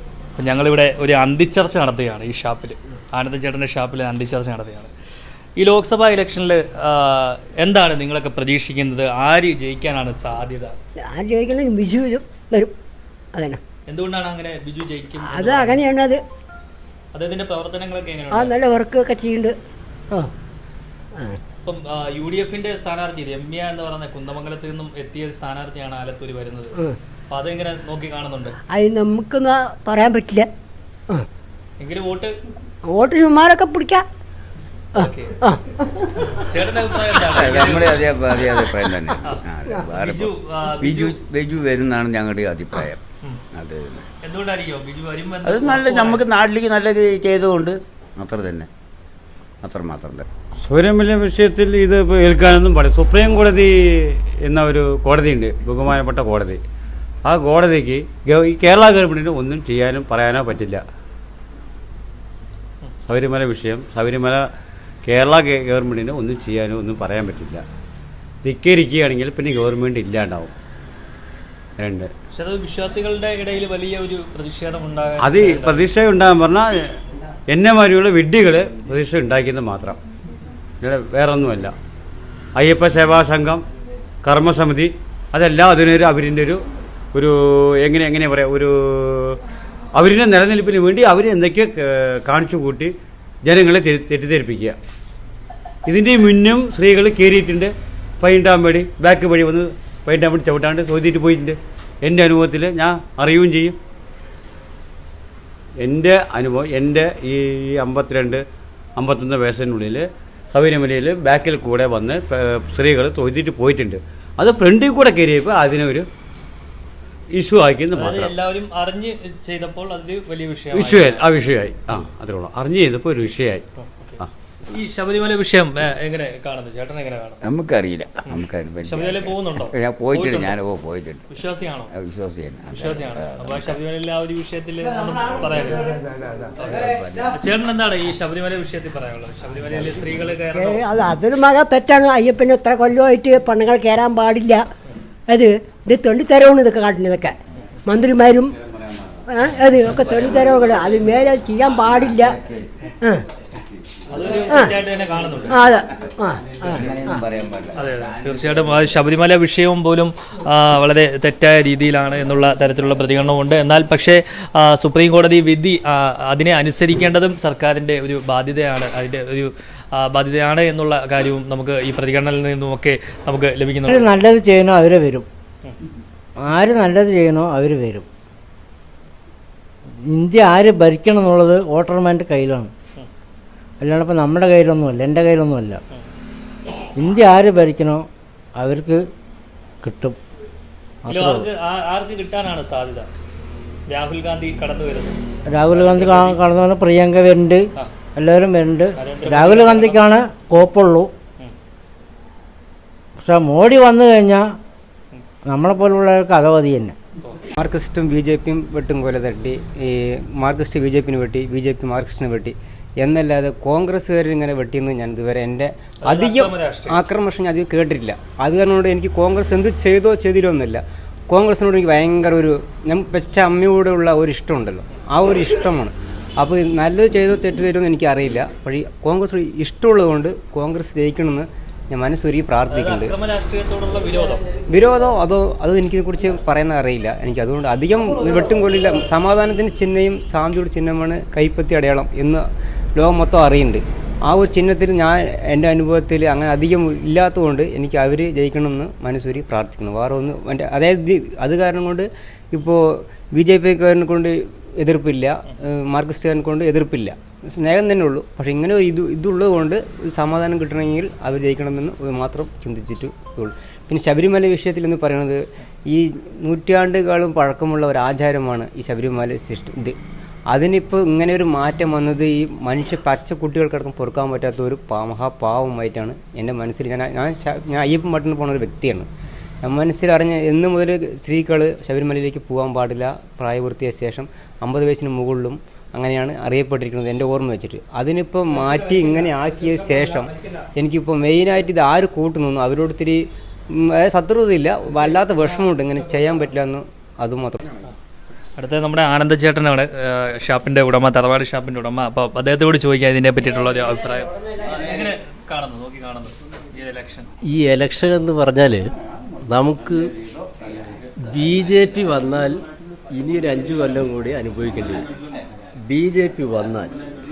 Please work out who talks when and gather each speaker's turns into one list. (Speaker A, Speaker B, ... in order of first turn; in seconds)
Speaker A: 0.4-4.9, 5.6-10.8, 13.9-15.8, 17.1-18.6, 21.6-26.8, 27.3-28.6, 31.8-32.3, 35.0-35.4, 36.2-38.0, 39.2-41.2, 44.2-46.3, 72.3-75.8, 117.9-121.2, 123.8-124.2, 124.7-127.4, 128.2-130.6, 131.3-131.9, 132.7-135.9, 136.6-140.8, 154.1-155.6, 157.8-174.1, 191.1-193.1, 193.9-196.4, 198.9-200.1, 216.0-217.0, 232.7-234.5, 298.6-307.3
Speaker B: 11.0-12.7, 13.3-13.6, 15.2-16.2, 18.3-19.6, 21.1-21.4, 28.7-30.5, 32.8-34.0, 34.9-35.8, 140.5-144.7, 145.3-148.5, 149.3-152.3, 154.5-154.7, 155.5-157.2
Speaker C: 37.3-43.0, 43.5-44.0, 45.4-48.7, 49.6-50.3, 127.4-131.2, 131.9-133.8, 136.6-137.2, 149.9-150.3, 152.0-152.6, 156.5-158.6
Speaker D: 50.6-56.6, 57.3-60.8, 63.0-64.4, 65.0-67.6, 68.4-70.5, 71.8-72.1, 75.2-76.7, 77.5-80.0, 80.8-81.7, 82.6-83.6, 84.2-86.6, 87.1-89.4, 89.9-92.9, 93.4-94.8, 95.8-103.8, 105.8-108.4, 109.0-116.1, 117.3-118.3, 120.7-123.6
Speaker E: 173.9-175.3, 176.4-178.1, 180.1-182.7, 183.8-185.8, 186.9-189.1, 189.8-190.2, 191.1-191.5, 195.5-201.1, 203.2-204.6, 205.4-207.0
Speaker F: 207.6-233.2, 234.7-242.4, 242.9-265.4, 265.9-269.9, 270.5-279.1, 279.6-293.2, 293.7-297.6
Speaker G: 307.5-308.9, 309.5-310.0, 311.2-312.6, 313.1-315.1, 315.9-316.9